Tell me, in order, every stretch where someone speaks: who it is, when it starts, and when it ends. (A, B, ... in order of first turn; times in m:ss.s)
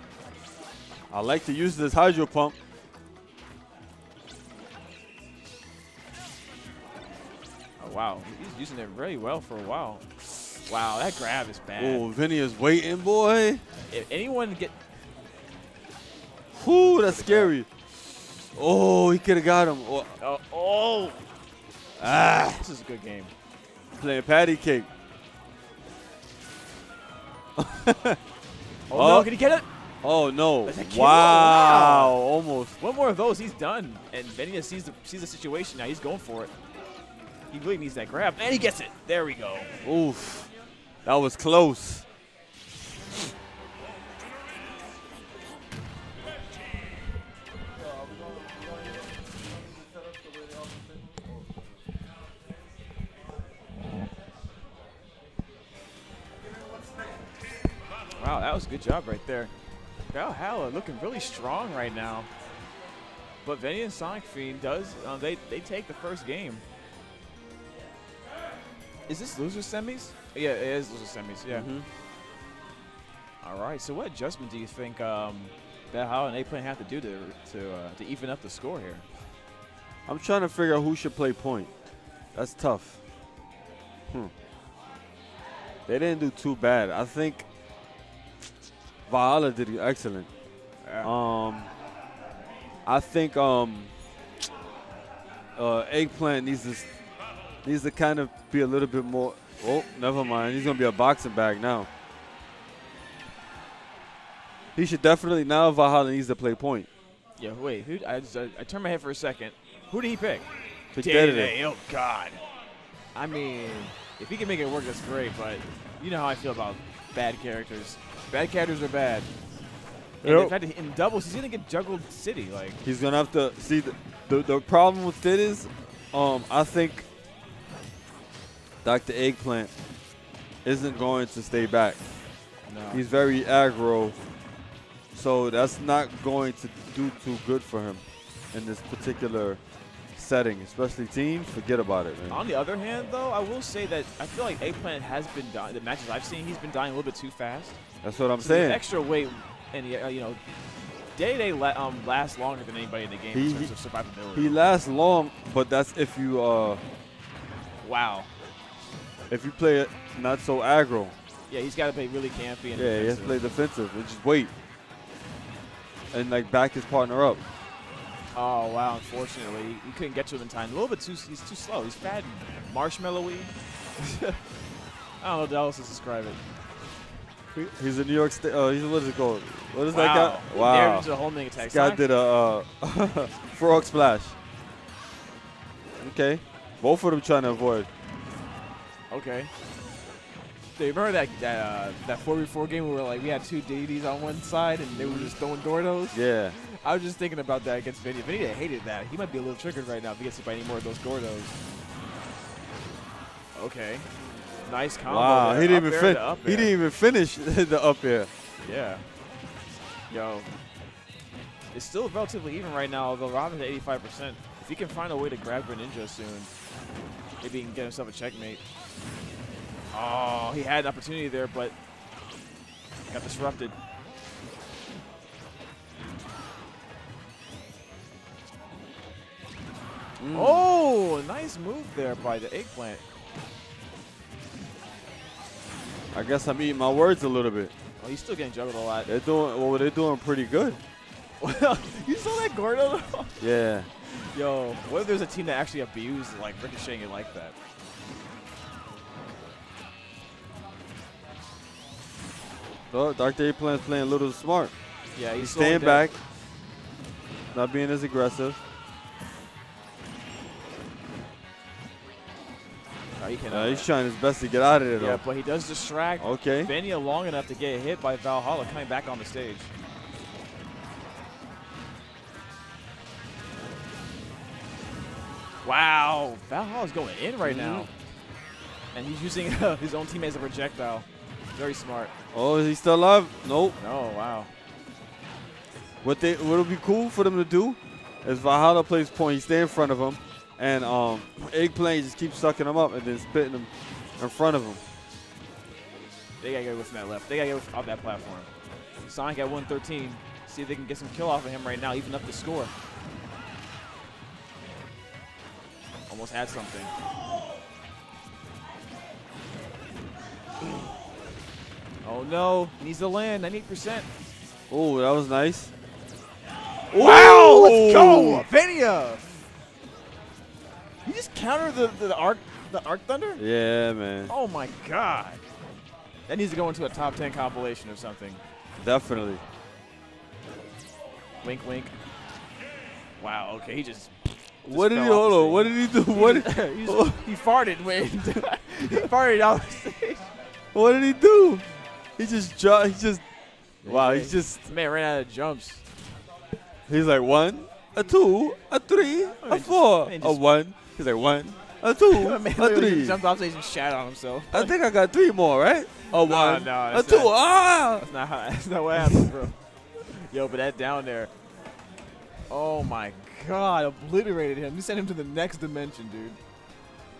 0:01.1-0:02.6 A
0:07.8-0:12.0 B
0:11.8-0:13.6 A
0:13.9-0:14.7 B
0:16.6-0:17.7 A
0:16.9-0:17.5 B
0:18.5-0:20.1 A
0:20.2-0:21.2 B
0:22.0-0:22.6 A
0:22.0-0:23.3 B
0:24.0-0:24.9 A
0:27.6-0:28.2 A
0:28.9-0:29.7 B
0:28.9-0:29.3 A
0:30.0-0:32.7 A
0:30.6-0:32.2 B
0:32.8-0:36.5 B
0:37.5-0:39.7 B
0:39.8-0:40.5 A
0:41.0-0:42.0 A
0:58.1-0:59.5 B
1:00.1-1:02.3 B
1:03.4-1:06.6 B
1:09.1-1:11.7 B
1:11.5-1:11.9 A
1:13.4-1:19.0 B
1:20.1-1:21.7 A
1:22.3-1:23.0 A
1:25.9-1:27.4 A
1:29.1-1:30.3 A
1:30.8-1:31.1 B
1:31.0-1:31.7 A
1:32.8-1:33.9 A
1:35.6-1:36.8 A
1:37.6-1:41.9 A
1:44.8-1:46.9 A
1:47.4-1:50.4 B
1:50.9-1:51.5 A
1:51.0-1:52.4 B
1:53.1-1:59.3 B
2:00.2-2:00.5 A
2:00.2-2:02.8 B
2:02.8-2:07.0 A
2:08.8-2:09.7 A
2:10.6-2:12.0 A
2:12.7-2:13.0 B
2:12.9-2:14.2 A
2:15.1-2:18.0 A
2:18.5-2:19.6 A
2:20.1-2:22.4 A
2:22.3-2:27.8 B
2:28.0-2:28.8 A
2:28.4-2:30.4 B
2:31.2-2:34.7 B
2:33.3-2:33.7 A
2:34.3-2:36.8 A
2:37.8-2:38.3 B
2:39.3-2:41.1 A
2:41.5-2:43.5 B
2:42.7-2:44.5 A
2:46.1-2:47.4 A
2:48.3-2:54.4 B
2:55.2-2:56.4 B
2:57.5-3:04.3 A
2:59.9-3:02.0 B
3:06.0-3:07.9 A
3:09.1-3:09.5 B
3:10.8-3:21.5 B
3:14.9-3:15.3 A
3:16.1-3:16.6 A
3:23.5-3:24.1 B
3:24.6-3:26.7 B
3:25.0-3:28.3 A
3:28.6-3:29.0 B
3:30.1-3:30.5 B
3:31.7-3:36.5 B
3:37.4-3:38.6 B
3:39.9-3:41.7 B
3:43.1-3:43.7 B
3:50.2-3:50.6 A
3:50.3-3:53.0 B
3:56.1-3:57.7 A
3:58.0-3:59.1 B
3:59.1-4:00.8 A
4:01.4-4:03.4 B
4:03.4-4:03.9 A
4:04.0-4:07.5 B
4:12.9-4:14.7 A
4:15.1-4:16.1 B
4:15.4-4:16.1 A
4:17.5-4:18.6 A
4:23.2-4:23.9 B
4:23.5-4:25.2 A
4:25.0-4:29.7 B
4:26.2-4:26.7 A
4:35.6-4:37.9 B
4:37.4-4:37.9 A
4:38.9-4:42.1 B
4:42.3-4:43.8 A
4:43.8-4:44.5 B
4:46.0-4:54.8 A
4:56.4-4:58.5 B
4:59.1-5:02.7 B
5:06.1-5:06.9 B
5:12.0-5:14.1 B
5:14.7-5:15.7 A
5:16.9-5:18.4 A
5:16.9-5:19.4 B
5:21.0-5:23.4 B
5:23.4-5:24.3 A
5:24.3-5:25.4 B
5:26.3-5:28.4 B
5:28.8-5:29.4 A
5:31.4-5:31.9 B
5:33.2-5:40.3 B
5:34.7-5:37.1 A
5:40.7-5:43.2 A
5:43.8-5:45.8 B
5:43.8-5:44.7 A
5:46.9-5:53.2 A
5:49.4-5:50.4 B
5:52.1-5:54.7 B
5:54.5-5:58.1 A
5:56.1-5:57.4 B
5:57.9-6:01.3 B
6:02.5-6:06.4 B